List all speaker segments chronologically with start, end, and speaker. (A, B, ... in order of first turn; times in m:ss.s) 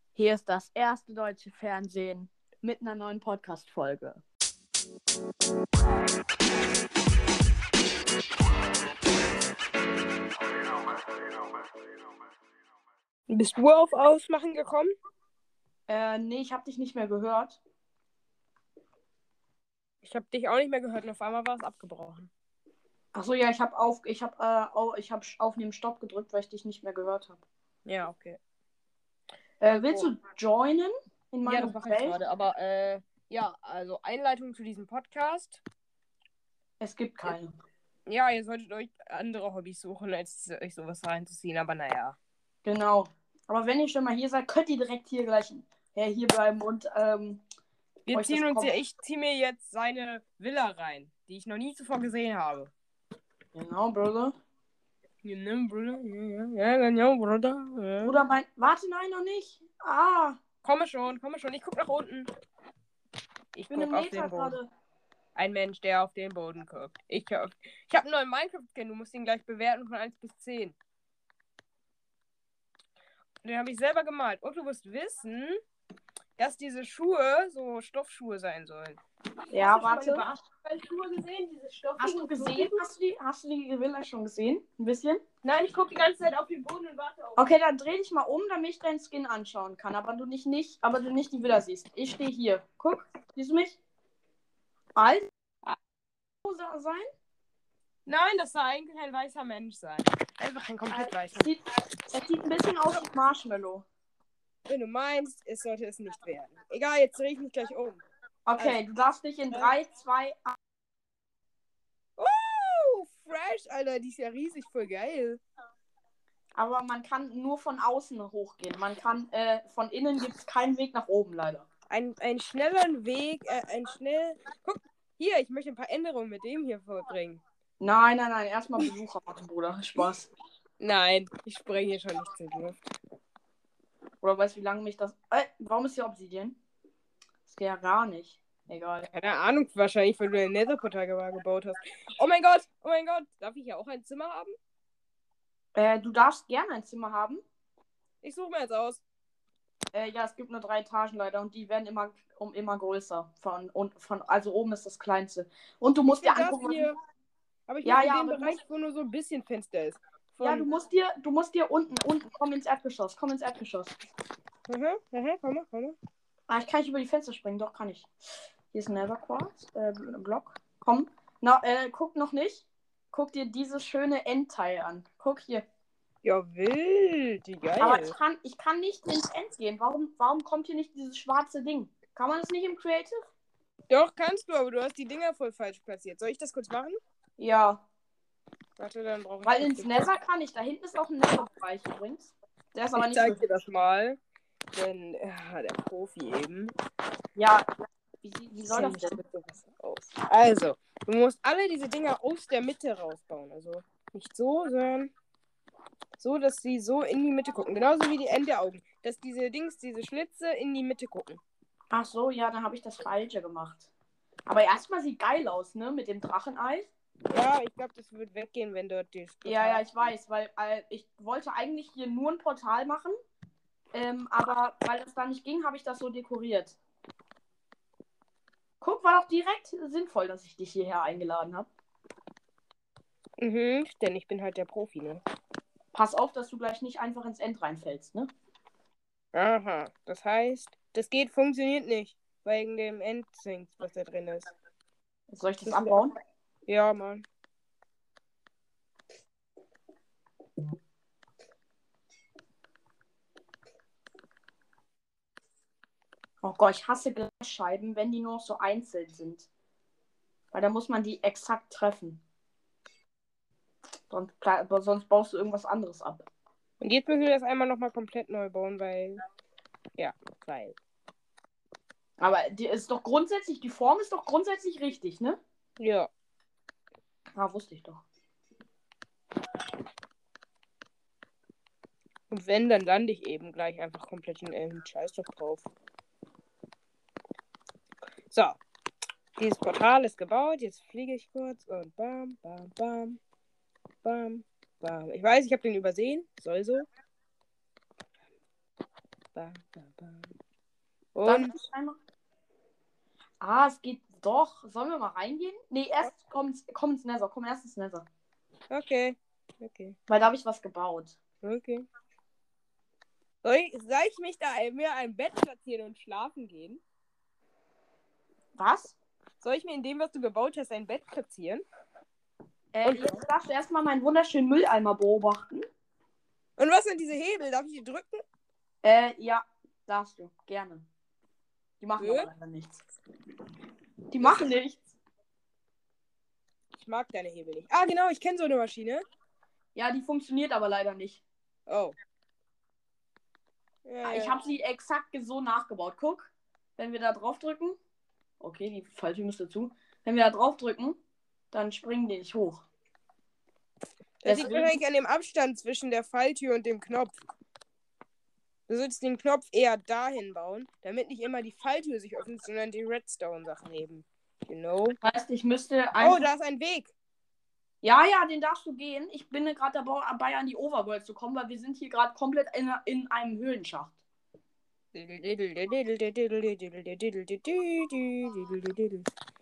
0:00.2-0:04.2 A
0:13.3-0:14.9 B
0:15.9-0:17.6 A
0:20.0-0:22.3 B
0:23.1-0:27.4 A
0:27.8-0:28.4 B
0:29.6-0:32.2 A
0:29.6-0:30.1 B
0:31.4-0:35.6 B
0:36.8-0:37.5 A
0:38.0-0:42.2 B
0:42.6-0:47.4 A
0:48.1-0:52.7 B
0:48.1-0:48.7 A
0:53.5-0:54.4 A
0:55.2-0:58.2 B
0:58.0-1:00.4 A
1:00.6-1:02.3 B
1:03.5-1:04.6 B
1:03.7-1:04.7 A
1:05.4-1:10.8 B
1:13.4-1:15.6 B
1:16.4-1:19.0 B
1:19.5-1:20.4 A
1:19.5-1:22.8 B
1:22.0-1:25.2 A
1:25.4-1:27.4 B
1:27.4-1:33.8 A
1:34.9-1:35.3 A
1:36.4-1:37.1 A
1:38.0-1:41.5 B
1:40.9-1:43.8 A
1:44.7-1:48.0 B
1:48.4-1:50.6 A
1:52.2-1:55.4 B
1:56.6-2:01.7 A
2:01.9-2:07.4 B
2:07.8-2:10.3 A
2:10.8-2:12.8 B
2:14.2-2:16.6 A
2:17.4-2:19.1 A
2:19.1-2:24.6 B
2:25.7-2:27.4 A
2:28.2-2:29.0 B
2:29.9-2:36.9 A
2:36.1-2:37.0 B
2:37.7-2:40.7 B
2:37.8-2:38.6 A
2:40.4-2:44.0 A
2:44.7-2:46.0 B
2:46.5-2:48.1 A
2:48.7-2:55.6 A
2:56.2-2:58.2 B
2:57.8-3:03.2 A
3:03.9-3:07.0 B
3:07.4-3:07.8 A
3:08.8-3:10.1 B
3:09.4-3:13.4 A
3:13.0-3:14.2 B
3:14.7-3:16.7 B
3:17.4-3:17.7 A
3:18.2-3:19.2 A
3:18.6-3:25.1 B
3:26.2-3:31.4 B
3:31.9-3:33.9 A
3:34.5-3:36.9 A
3:37.3-3:40.1 B
3:39.4-3:43.2 A
3:43.9-3:46.8 A
3:48.8-3:51.7 A
3:53.4-3:55.2 B
3:55.9-3:58.3 A
3:59.3-4:04.5 B
4:05.3-4:06.1 A
4:05.6-4:06.0 B
4:06.7-4:07.2 B
4:16.4-4:19.5 A
4:20.5-4:22.2 A
4:24.1-4:26.3 A
4:26.8-4:29.2 B
4:30.0-4:30.8 B
4:32.2-4:35.4 A
4:35.8-4:36.1 B
4:37.3-4:38.0 A
4:42.3-4:45.7 B
4:48.3-4:48.6 B
4:49.4-4:53.2 B
4:54.0-4:56.8 B
4:59.3-5:00.3 B
5:01.1-5:01.5 B
5:01.2-5:02.0 A
5:03.4-5:08.1 A
5:08.7-5:10.0 B
5:10.1-5:11.2 A
5:11.4-5:11.8 B
5:13.4-5:16.8 B
5:18.6-5:19.0 A
5:19.4-5:21.6 B
5:22.7-5:25.6 A
5:22.8-5:23.2 B
5:26.6-5:28.2 B
5:28.8-5:30.8 A
5:31.8-5:32.8 A
5:32.0-5:32.3 B
5:34.1-5:35.0 A
5:36.7-5:39.0 B
5:39.7-5:41.2 A
5:41.7-5:42.0 B
5:43.8-5:44.3 B
5:44.0-5:47.8 A
5:48.4-5:51.0 A
5:51.5-5:52.6 A
5:54.2-5:57.2 B
5:54.2-5:54.8 A
5:58.7-6:05.0 B
6:05.0-6:06.2 A
6:06.0-6:06.9 B
6:07.8-6:14.0 A
6:14.9-6:19.1 B